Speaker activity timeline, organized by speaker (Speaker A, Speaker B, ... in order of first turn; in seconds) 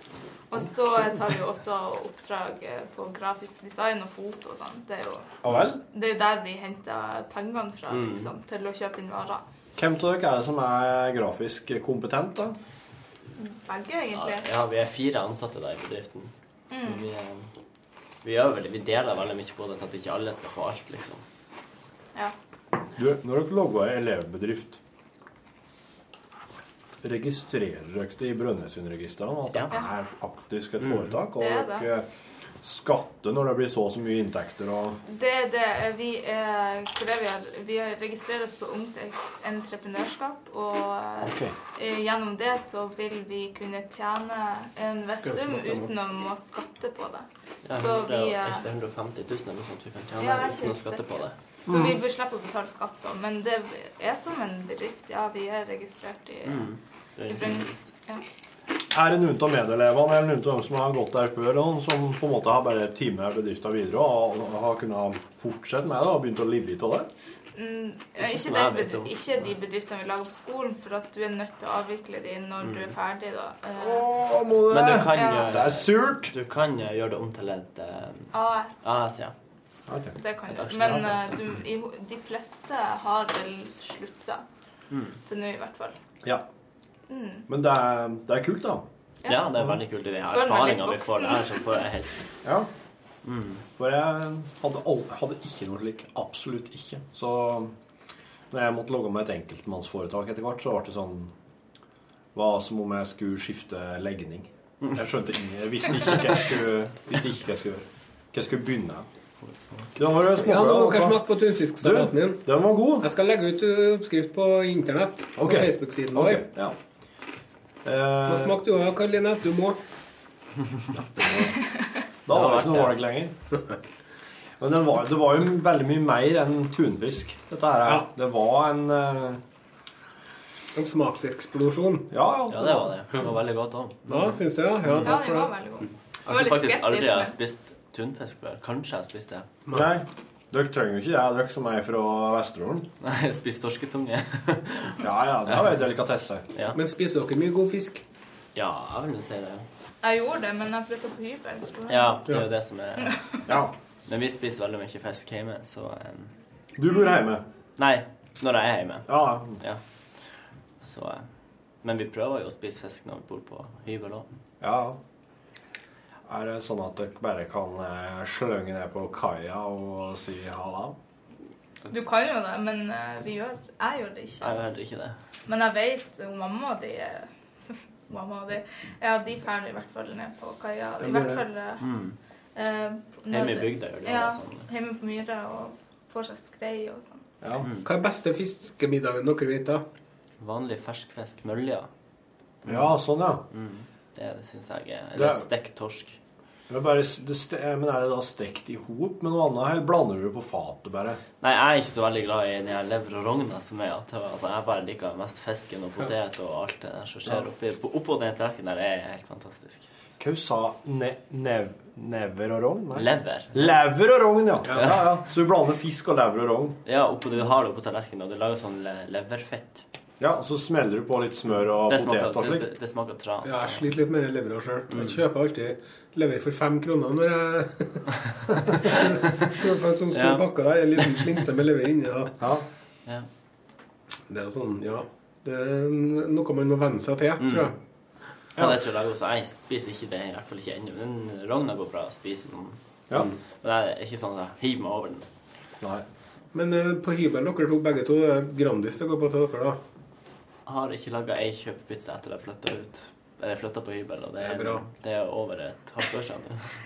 Speaker A: 0.5-5.3, 5.8-9.4, 13.4-14.5, 16.7-17.1, 31.4-31.9, 35.1-48.6, 50.2-56.7, 57.3-58.2, 67.5-74.1, 75.1-75.6, 78.3-78.9, 80.2-84.4, 85.3-86.0, 87.1-87.5, 89.2-89.6, 90.3-91.8, 135.1-137.3, 150.0-152.2, 153.0-153.4, 171.9-174.6, 175.5-177.3, 178.1-181.9, 182.6-187.2
Speaker B: 5.4-5.8, 9.8-12.6, 23.0-24.8, 27.0-32.0, 32.6-35.0, 41.2-41.5, 51.7-52.0, 58.9-67.1, 73.8-76.3, 79.9-80.2, 87.5-88.8, 93.8-97.7, 98.5-101.3, 102.3-109.1, 110.0-111.3, 111.8-113.1, 115.4-116.8, 117.8-118.6, 120.9-121.6, 122.3-123.3, 124.6-129.4, 132.1-132.9, 139.7-142.9, 145.0-146.4, 156.8-157.4, 159.1-159.6, 164.6-165.0, 166.3-171.0, 192.7-193.4, 195.2-195.4, 196.7-201.2, 210.2-216.8, 220.2-222.7
Speaker C: 7.9-8.3, 14.1-17.5, 18.2-21.2, 30.9-31.1, 47.6-51.4, 56.5-57.8, 68.2-69.4, 72.6-73.0, 74.7-79.3, 80.5-81.5, 84.9-85.2, 89.2-92.3, 93.2-93.6, 109.4-109.9, 122.3-123.0, 132.5-135.2, 136.3-139.5, 143.0-145.5, 148.6-149.7, 151.9-153.4, 154.1-156.3, 157.8-159.8, 160.8-161.3, 161.8-164.3, 174.4-175.2, 181.8-182.2, 183.3-184.7, 187.6-187.9, 190.4-191.9, 193.5-196.2, 201.4-209.9, 212.9-213.8, 214.7-215.1, 216.9-219.8, 221.9-223.9, 230.1-230.5, 237.4-237.7, 238.6-242.8, 243.6-245.3, 250.7-256.8
Speaker D: 45.2-45.9, 110.3-116.5, 118.3-119.8, 130.7-132.1, 134.1-135.5, 146.7-148.0, 181.0-181.4, 187.8-189.8, 223.4-228.1, 228.7-232.3, 234.3-237.8, 246.5-249.8, 254.4-254.8